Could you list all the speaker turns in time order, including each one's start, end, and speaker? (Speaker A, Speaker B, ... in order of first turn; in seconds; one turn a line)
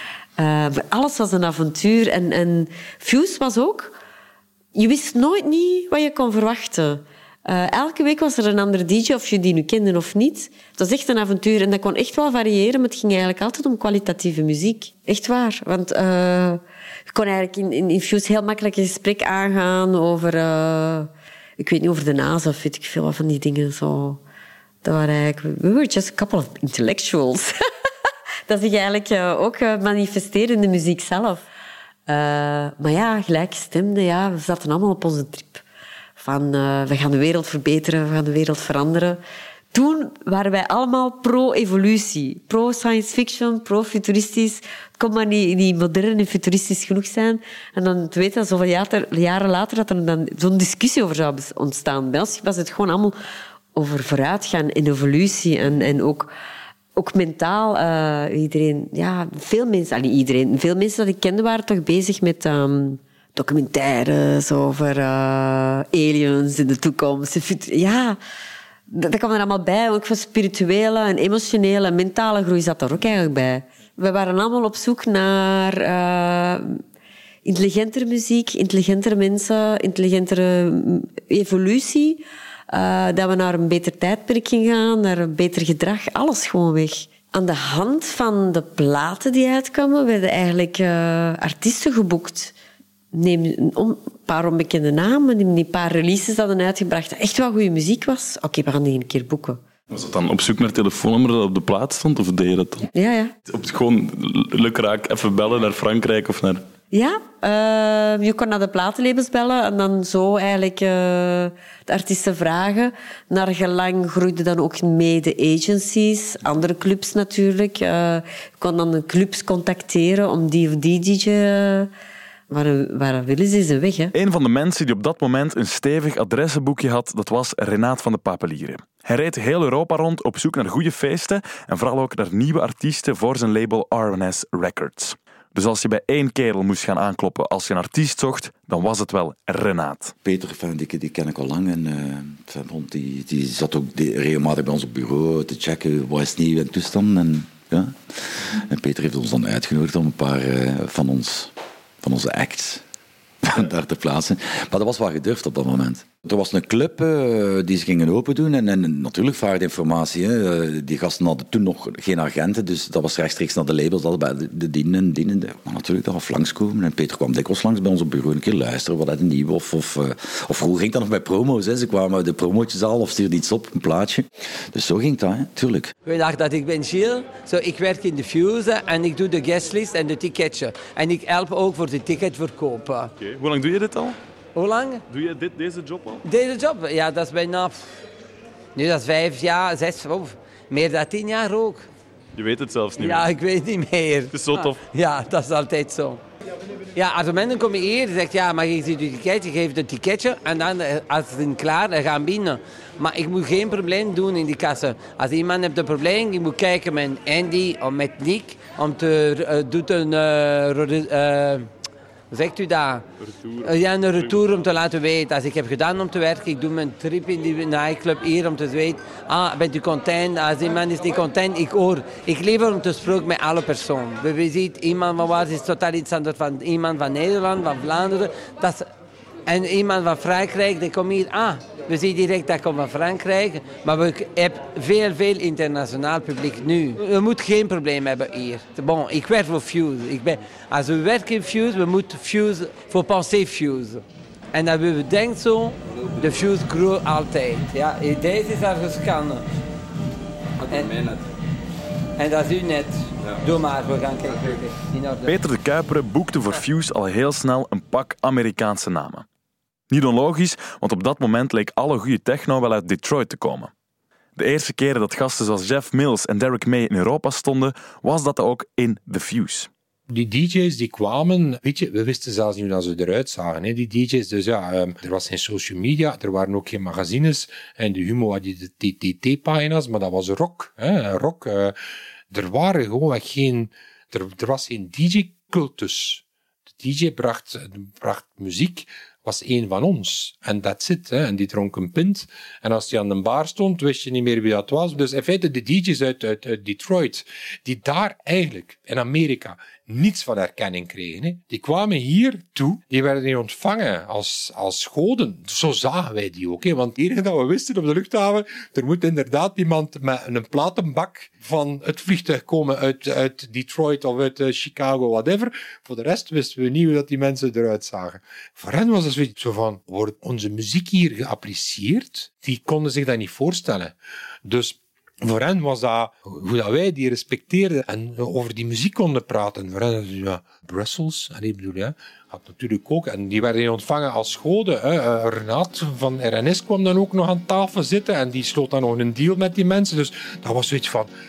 Speaker A: 0.4-3.9
Speaker A: 4.8-24.2
Speaker A: 24.8-27.5
Speaker A: 28.5-31.4
Speaker A: 32.1-35.6
Speaker A: 36.2-39.2
Speaker A: 39.7-53.2
Speaker A: 53.7-56.3
Speaker A: 57.0-68.2
Speaker A: 68.9-76.8
Speaker A: 77.5-92.5
Speaker A: 93.1-99.6
Speaker B: 99.9-102.9
Speaker A: 102.9-103.3
Speaker B: 103.5-106.6
Speaker A: 106.9-121.9
Speaker A: 122.5-124.1
Speaker B: 124.1-140.2
Speaker C: 140.2-152.8
Speaker C: 153.4-175.9
Speaker D: 176.0-183.1
Speaker B: 183.2-184.2
Speaker D: 184.5-185.0
Speaker B: 185.1-186.2
Speaker D: 186.2-187.8
Speaker D: 188.7-191.9
Speaker B: 192.3-193.3
Speaker D: 193.0-196.2
Speaker B: 194.3-194.8
Speaker D: 196.9-211.7
Speaker D: 212.3-213.1
Speaker B: 213.2-214.4
Speaker D: 213.6-228.9
Speaker D: 229.5-249.4
Speaker D: 250.6-251.1
Speaker D: 252.2-255.3
Speaker B: 255.2-259.2
Speaker B: 259.9-263.7
Speaker B: 264.4-269.7
Speaker E: 270.1-281.8
Speaker E: 282.3-286.2
Speaker E: 286.8-341.1